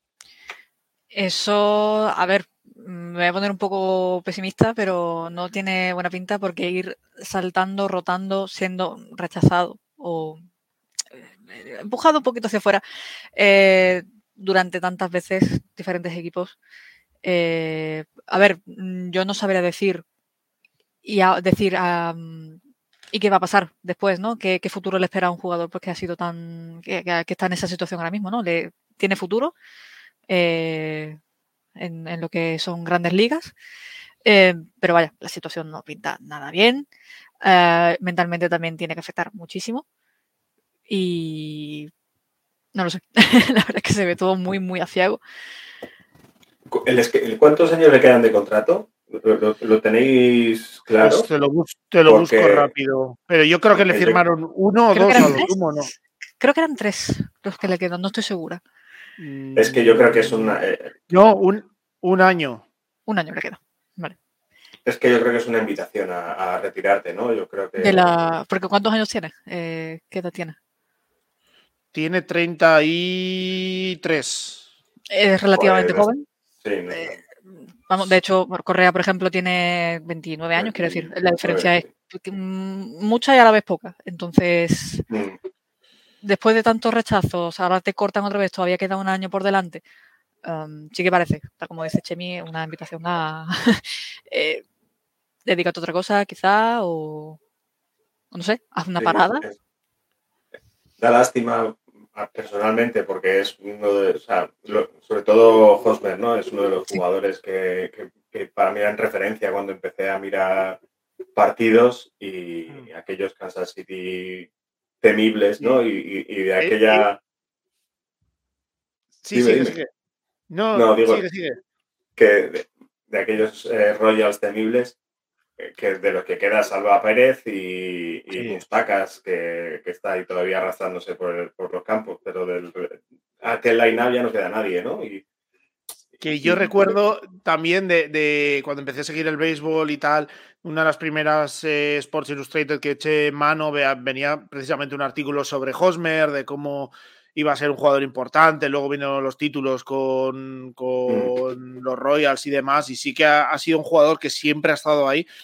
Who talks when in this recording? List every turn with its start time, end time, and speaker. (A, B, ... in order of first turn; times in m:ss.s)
0:01.1-0:10.4 A
0:11.4-0:12.8 A
0:13.3-0:16.5 A
0:17.2-0:20.0 A
0:21.0-0:22.6 A
0:23.1-0:29.5 A
0:30.3-0:31.2 A
0:31.8-0:33.5 A
0:34.2-0:36.9 A
0:37.4-0:39.8 A
0:40.9-0:41.9 A
0:42.7-0:45.2 A
0:46.7-0:51.3 B
0:51.0-0:55.9 C
0:52.0-0:52.7 B
0:53.7-0:54.2 B
0:54.9-0:55.6 A
0:56.4-0:58.6 A
0:59.2-1:00.6 C
0:59.6-1:01.0 B
1:01.1-1:02.6 C
1:03.1-1:04.1 A
1:04.8-1:08.2 B
1:07.8-1:10.6 A
1:11.9-1:14.6 C
1:15.1-1:16.2 A
1:15.5-1:16.1 B
1:16.6-1:17.2 B
1:17.9-1:25.0 A
1:20.6-1:21.9 B
1:25.1-1:25.4 B
1:26.2-1:29.8 A
1:30.4-1:34.6 A
1:35.4-1:37.4 A
1:38.3-1:39.4 A
1:39.0-1:39.5 B
1:41.0-1:50.8 B
1:51.4-1:54.5 B
1:55.0-1:57.2 B
1:56.6-1:57.0 C
1:59.2-1:59.9 C
1:59.3-1:59.8 B
2:00.5-2:01.6 C
2:00.7-2:01.2 B
2:02.2-2:05.0 B
2:05.6-2:15.2 B
2:16.2-2:35.3 C
2:16.4-2:17.0 B